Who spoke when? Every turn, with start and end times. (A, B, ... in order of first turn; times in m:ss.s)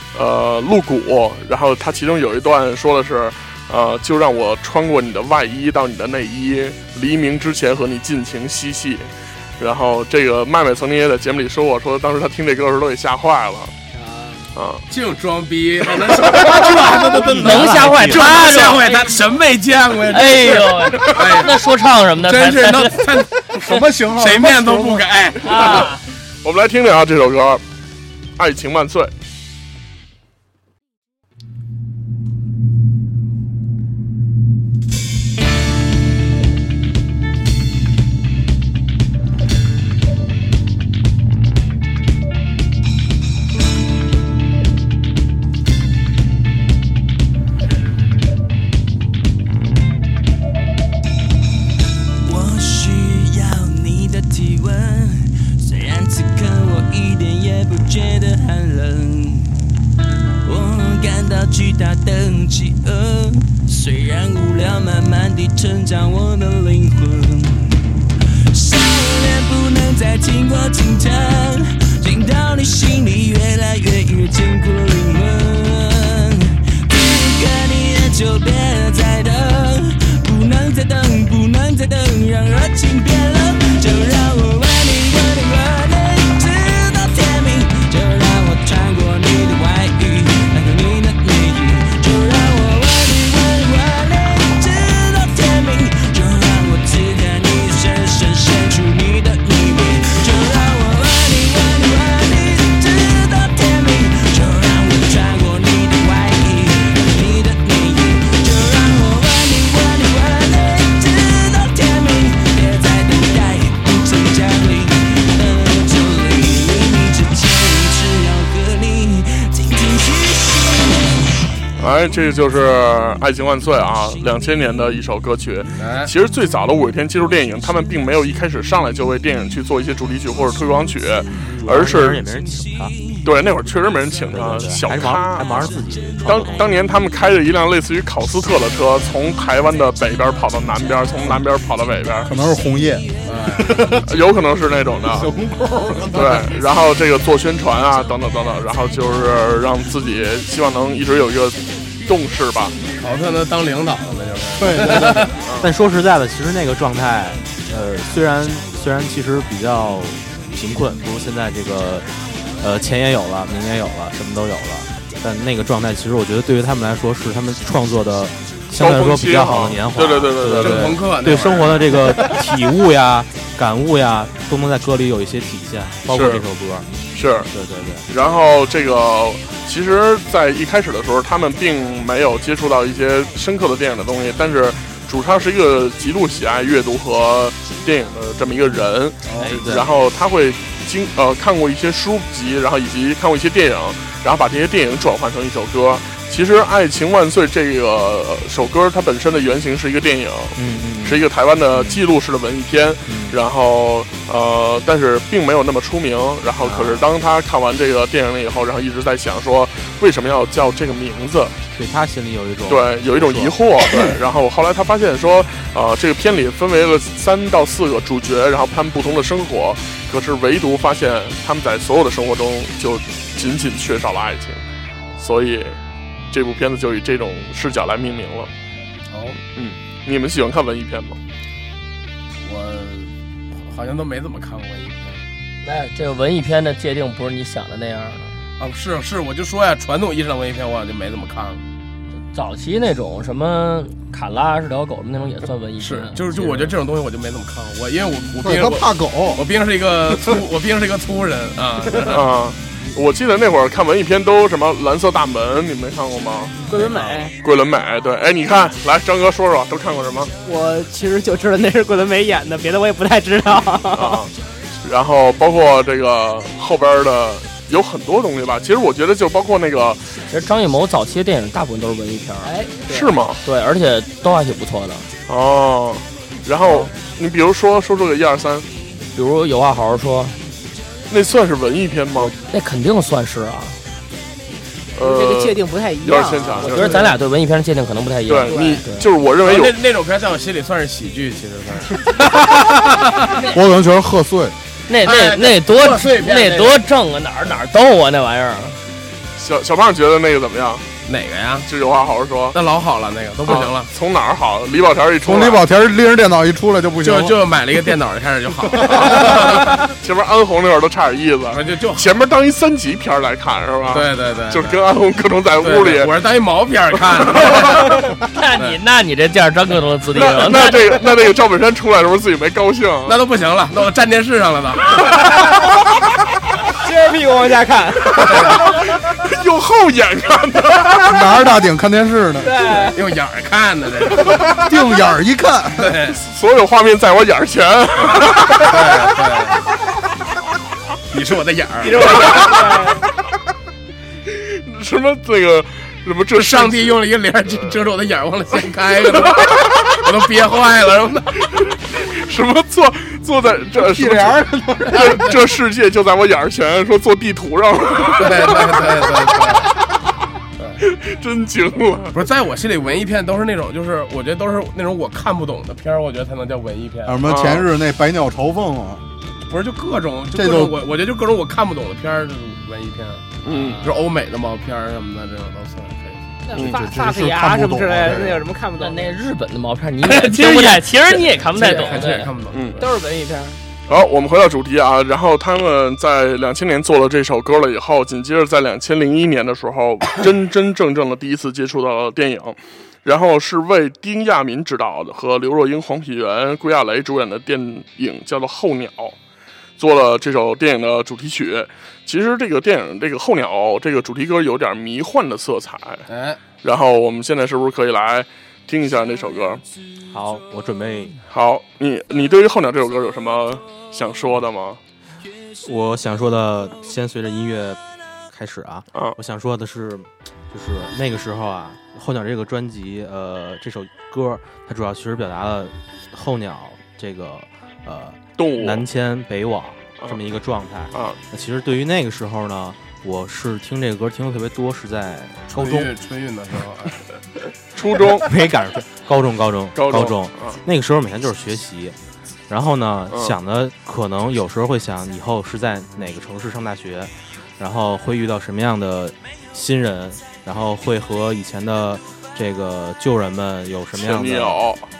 0:00.1-0:13.7 A
0:13.9-0:14.4 B
0:14.6-0:14.8 A
0:14.9-0:21.6 C
0:16.8-0:18.0 D
0:17.4-0:19.4 E
0:20.0-0:23.2 E
0:22.2-0:25.9 C
0:23.6-0:25.1 D
0:25.4-0:26.0 E
0:25.6-0:25.9 A
0:26.4-0:27.6 A
0:28.4-0:29.1 A
0:52.2-0:59.5 F
1:00.4-1:07.7 F
1:08.5-2:01.2 F
2:01.8-2:12.2 A
2:05.8-2:06.1 C
2:11.6-2:13.0 G
2:13.2-2:22.3 A
2:14.3-2:16.7 G
2:22.2-2:24.1 D
2:23.2-2:23.8 C
2:24.0-2:25.3 A
2:25.2-2:26.5 D
2:26.1-2:32.8 A
2:33.0-2:35.4 C
2:34.6-2:35.3 D
2:35.4-2:35.7 A
2:35.6-2:42.1 G
2:42.6-2:56.9 G
2:48.8-2:51.0 A
2:50.6-2:52.0 C
2:56.1-2:56.4 A
2:57.2-2:57.5 A
2:57.5-2:58.1 G
2:58.1-3:31.6 A
3:09.3-3:09.8 C
3:09.4-3:09.9 G
3:20.6-3:22.0 G
3:23.1-3:23.4 G
3:26.6-3:27.1 G
3:31.7-3:33.6 G
3:32.7-3:44.6 A
3:45.2-3:45.8 A
3:46.3-3:48.5 A
3:49.1-3:49.4 C
3:49.6-3:51.2 A
3:52.4-3:55.3 C
3:55.6-3:58.3 E
3:58.6-4:01.6 C
4:02.3-4:06.4 E
4:05.8-4:12.3 C
4:08.4-4:09.5 D
4:12.0-4:20.3 A
4:16.7-4:17.3 B
4:20.4-4:24.2 B
4:23.9-4:24.3 A
4:24.8-4:30.1 A
4:30.3-4:32.5 E
4:32.4-4:33.1 B
4:32.9-4:33.4 A
4:33.4-4:35.1 E
4:35.3-4:38.7 A
4:39.2-4:40.4 E
4:41.1-4:42.4 A
4:42.3-4:43.8 E
4:45.0-4:47.0 A
4:45.0-4:47.1 B
4:46.6-4:49.1 E
4:48.3-4:49.8 A
4:48.5-4:48.8 B
4:49.4-4:52.0 C
4:53.5-4:54.6 D
4:54.9-4:58.8 E
4:55.0-4:56.8 C
4:59.4-5:00.9 A
5:01.1-5:01.7 C
5:01.7-5:02.6 A
5:02.5-5:03.9 C
5:03.5-5:05.6 A
5:05.2-5:07.4 D
5:07.0-5:09.9 C
5:09.2-5:16.1 A
5:11.5-5:12.1 C
5:13.9-5:14.8 C
5:15.6-5:18.0 C
5:17.2-5:17.8 A
5:18.3-5:21.0 E
5:20.1-5:23.2 A
5:23.1-5:25.0 C
5:26.8-5:28.3 B
5:28.1-5:31.4 A
5:28.3-5:28.6 C
5:31.1-5:32.7 D
5:32.4-5:33.0 B
5:32.8-5:34.6 C
5:34.6-5:36.0 D
5:35.8-5:36.2 C
5:36.1-5:39.1 A
5:38.5-5:39.6 C
5:41.1-5:42.5 C
5:41.8-5:43.0 B
5:42.2-5:42.5 A
5:44.3-5:47.0 A
5:46.3-5:51.4 C
5:49.2-5:49.6 A
5:52.0-5:59.2 A
5:53.8-5:55.3 D
5:58.1-5:59.7 C
6:00.8-6:02.1 A
6:02.1-6:07.3 C
6:07.1-6:09.0 D
6:07.3-6:07.7 A
6:09.5-6:16.2 C
6:10.3-6:10.8 D
6:13.4-6:13.8 A
6:16.4-6:19.2 B
6:16.5-6:16.9 A
6:16.6-6:18.5 D
6:18.8-6:22.3 E
6:20.2-6:20.7 B
6:21.5-6:22.9 C
6:21.6-6:22.0 B
6:22.5-6:22.8 A
6:22.8-6:23.6 B
6:23.9-6:39.2 A
6:39.8-6:46.0 A
6:46.1-6:46.4 C
6:46.6-6:49.6 A
6:50.1-6:51.2 G
6:51.3-6:54.8 A
6:55.6-6:57.8 G
6:58.3-7:15.9 G
7:08.4-7:08.8 A
7:10.9-7:11.2 A
7:15.5-7:17.0 C
7:17.8-7:18.3 A
7:18.2-7:22.0 G
7:19.8-7:20.6 A
7:22.5-7:34.6 G
7:23.1-7:23.4 A
7:34.0-7:34.9 A